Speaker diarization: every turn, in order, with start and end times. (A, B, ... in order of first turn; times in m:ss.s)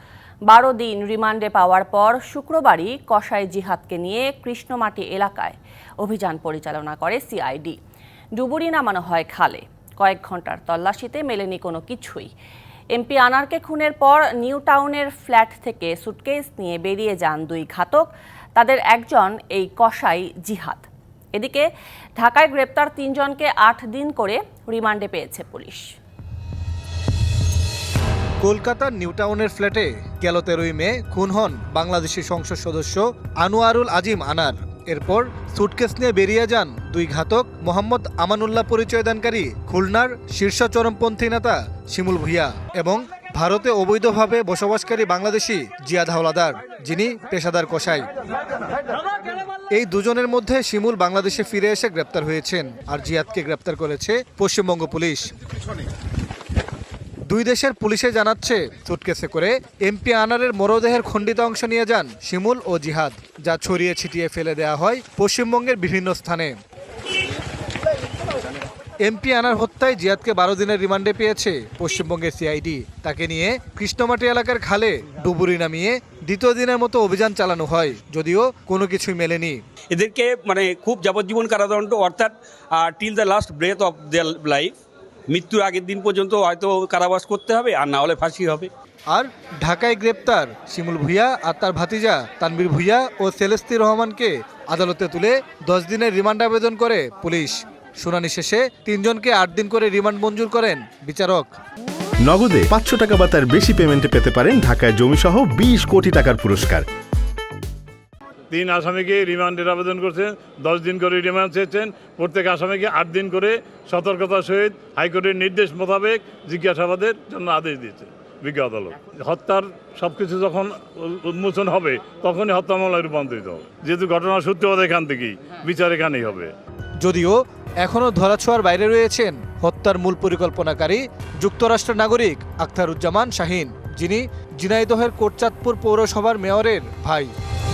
0:00.5-0:07.8 A
0:08.4-0:12.3 A
0:12.9-0:21.7 A
0:22.2-0:25.9 A
0:28.4-0:48.1 B
0:49.7-0:55.3 B
0:57.3-1:06.6 B
1:09.0-1:19.6 B
1:19.9-1:24.7 C
1:25.3-1:28.7 C
1:29.1-1:41.5 B
1:42.2-1:46.8 D
1:48.5-2:06.5 E
2:07.0-2:17.3 B